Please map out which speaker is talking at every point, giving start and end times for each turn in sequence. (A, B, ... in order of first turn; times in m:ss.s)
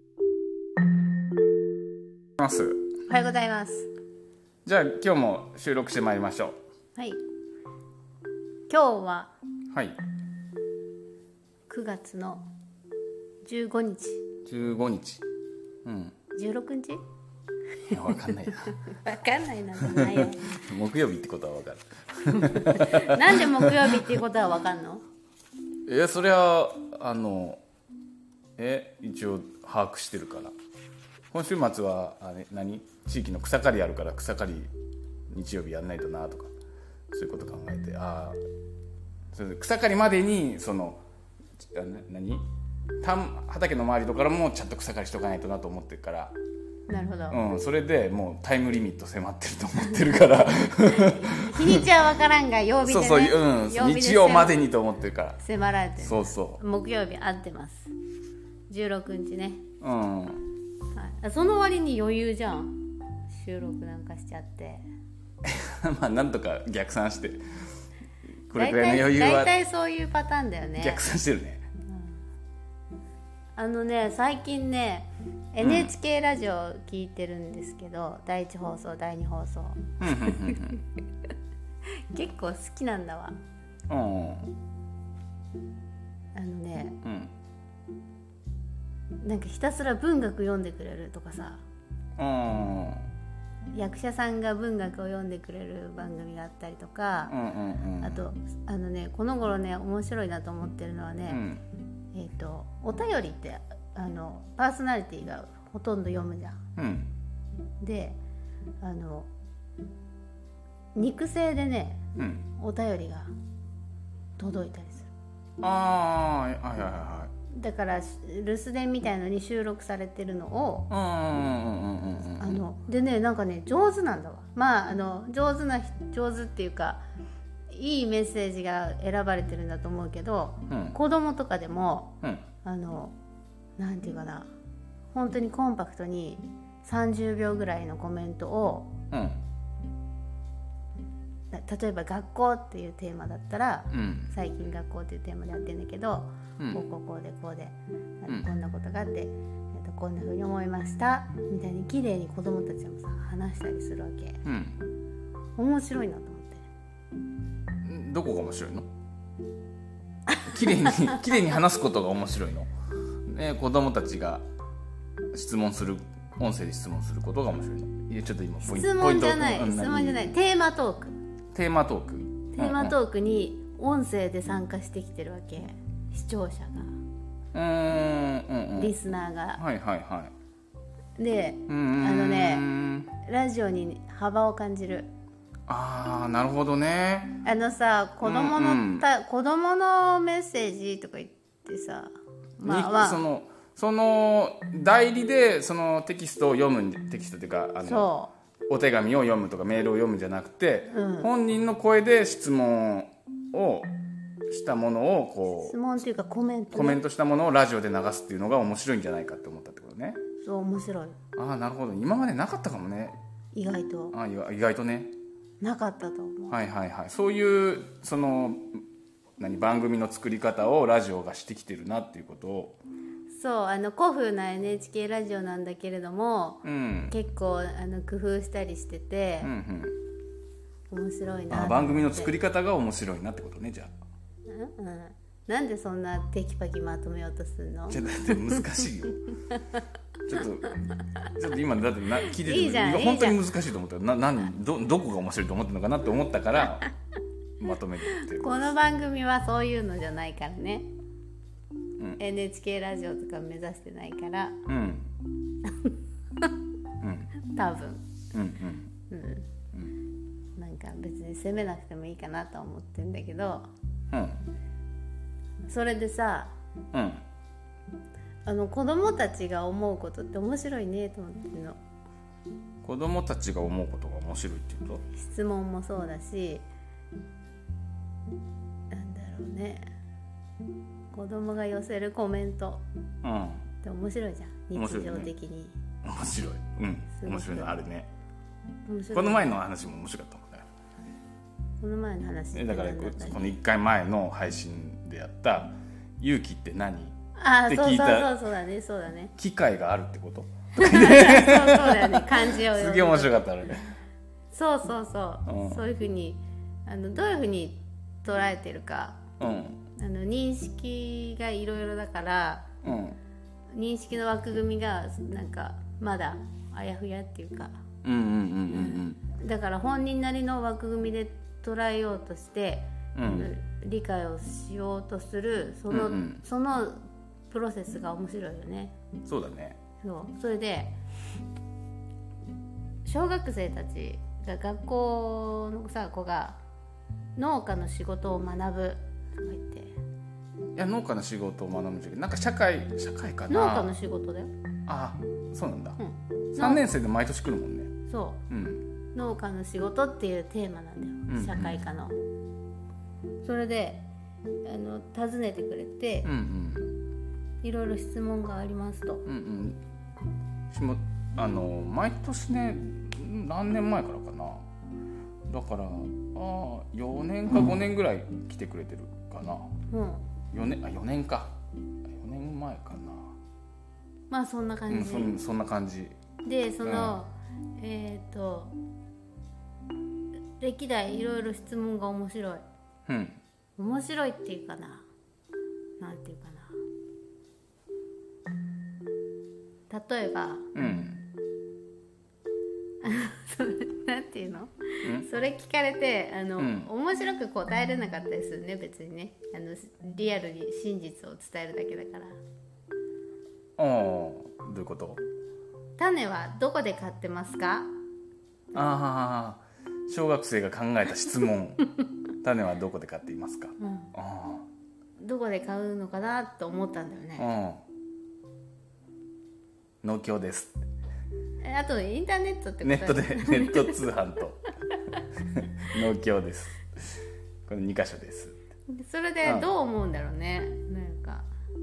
0:02.4-0:02.8 A
0:03.1-0:03.9 B
0:04.7-0:06.6 A
0:07.0-0:07.2 B
0:08.7-0:09.3 B
0:09.7-0:10.0 A
0:11.7-0:12.4 B
0:13.4-0:14.2 B
0:14.5-0:15.2 A
0:15.8-0:16.2 A
0:16.4-0:17.0 B
0:17.9-0:18.8 A
0:17.9-0:20.6 B
0:19.8-0:24.0 A
0:22.4-0:25.0 B
0:25.9-0:27.6 A
0:28.6-0:30.5 A
0:31.3-0:34.7 A
0:35.3-0:36.5 A
0:37.1-0:38.4 A
0:39.3-0:41.0 A
0:41.6-0:42.5 A
0:43.0-0:46.3 A
0:46.9-0:47.4 B
0:47.3-0:52.0 A
0:49.9-0:54.6 B
0:52.8-0:55.4 A
0:55.4-0:57.9 B
0:56.0-0:56.6 A
0:58.7-0:59.6 B
0:59.8-1:00.4 A
1:00.9-1:02.8 B
1:03.3-1:04.8 B
1:05.4-1:07.4 A
1:08.5-1:09.5 A
1:08.5-1:11.0 B
1:10.8-1:11.7 A
1:13.6-1:20.8 B
1:15.6-1:15.9 A
1:20.0-1:20.8 A
1:21.9-1:23.4 B
1:23.9-1:24.5 A
1:26.3-1:27.0 B
1:27.0-1:27.3 A
1:29.2-1:31.6 B
1:32.2-1:33.0 A
1:33.7-1:37.4 B
1:37.3-1:38.3 A
1:38.0-1:41.4 B
1:41.3-1:41.6 A
1:42.1-1:46.6 B
1:46.8-1:47.1 A
1:47.8-1:48.2 B
1:48.8-1:49.3 B
1:51.0-1:53.3 B
1:52.2-1:52.4 A
1:54.4-1:55.1 B
1:55.6-1:57.3 A
1:57.5-2:00.9 B
2:00.9-2:02.6 A
2:02.4-2:07.0 B
2:07.7-2:13.2 B
2:10.7-2:11.0 A
2:13.8-2:14.5 B
2:15.1-2:18.9 B
2:19.1-2:19.4 A
2:21.5-2:34.4 B
2:23.9-2:24.3 A
2:26.6-2:26.8 A
2:34.4-2:34.8 A
2:35.6-2:36.7 B
2:37.8-2:38.9 A
2:40.3-2:41.2 B
2:40.5-2:42.7 A
2:43.3-2:44.4 A
2:45.3-2:50.3 A
2:48.6-2:51.2 B
2:51.5-2:53.0 A
2:52.5-2:56.9 B
2:57.5-2:59.0 A
2:58.8-2:59.6 B
2:59.6-3:00.3 A
3:01.2-3:05.1 B
3:01.7-3:03.1 A
3:05.7-3:07.4 A
3:07.4-3:13.2 B
3:08.2-3:09.1 A
3:12.6-3:18.1 A
3:17.8-3:18.3 B
3:18.7-3:23.9 A
3:20.9-3:21.3 B
3:24.5-3:25.8 A
3:25.5-3:27.0 B
3:26.7-3:30.2 A
3:30.4-3:31.2 B
3:31.4-3:33.2 A
3:33.5-3:34.2 B
3:34.1-3:35.1 A
3:35.6-3:36.6 B
3:36.5-3:38.8 A
3:39.4-3:42.8 A
3:43.3-3:49.5 B
3:46.6-3:47.1 A
3:49.4-3:50.0 A
3:50.9-3:52.3 B
3:51.5-3:53.9 A
3:54.5-3:58.6 B
3:57.9-3:59.2 A
4:00.3-4:06.9 A
4:02.3-4:03.4 B
4:07.6-4:08.7 A
4:08.1-4:10.9 B
4:12.2-4:14.6 B
4:14.7-4:15.1 A
4:15.6-4:16.5 B
4:17.0-4:17.3 A
4:17.4-4:18.0 B
4:18.3-4:18.9 A
4:19.1-4:19.5 B
4:20.6-4:23.7 B
4:24.1-4:24.4 A
4:25.7-4:26.5 B
4:26.9-4:27.2 A
4:28.5-4:31.8 B
4:32.8-4:35.0 A
4:35.1-4:36.6 B
4:38.9-4:39.9 B
4:41.1-4:42.8 B
4:43.2-4:43.6 A
4:43.8-4:45.8 B
4:44.7-4:45.3 A
4:46.0-4:48.1 A
4:47.1-4:47.7 B
4:48.9-4:49.4 B
4:49.1-4:50.7 A
4:51.8-4:53.6 B
4:52.5-4:58.3 A
4:57.4-4:59.3 B
4:59.4-5:03.9 A
5:00.7-5:03.4 B
5:04.5-5:09.2 B
5:05.5-5:05.8 A
5:09.4-5:09.8 A
5:10.0-5:12.7 B
5:12.8-5:13.2 A
5:13.7-5:17.8 B
5:18.0-5:19.2 A
5:18.7-5:29.0 B
5:23.2-5:23.5 A
5:25.9-5:26.4 A
5:29.3-5:29.8 A
5:30.0-5:31.0 B
5:33.0-5:36.6 B
5:37.4-5:39.9 B
5:40.8-5:43.9 A
5:43.5-5:44.5 B
5:44.9-5:46.0 A
5:46.0-5:46.9 B
5:46.5-5:47.9 A
5:48.1-5:48.4 B
5:48.5-5:48.8 A
5:49.1-5:52.2 B
5:51.3-5:51.8 A
5:53.4-5:54.1 B
5:54.6-5:56.3 B
5:56.2-5:56.9 A
5:57.6-5:59.3 B
5:59.3-5:59.8 A
6:00.7-6:04.7 A
6:05.5-6:09.7 A
6:09.9-6:10.2 B
6:10.5-6:11.6 A
6:12.1-6:13.4 A
6:14.3-6:15.3 B
6:14.9-6:16.2 A
6:16.4-6:18.8 B
6:16.8-6:17.2 A
6:20.6-6:22.6 B
6:23.1-6:23.4 A
6:23.8-6:25.1 B
6:26.0-6:26.7 B
6:29.9-6:30.7 B
6:30.8-6:31.2 A
6:33.0-6:42.4 B
6:36.6-6:36.9 A
6:43.8-6:45.2 A
6:46.0-6:47.9 B
6:48.7-6:51.8 A
6:52.4-6:54.6 A
6:53.8-6:54.1 B
6:55.2-6:57.5 B
6:57.4-6:57.8 A
7:00.0-7:00.8 A
7:01.6-7:04.0 B
7:02.8-7:04.7 A
7:05.6-7:07.2 A
7:07.7-7:08.6 A
7:08.9-7:11.5 B
7:09.4-7:09.7 A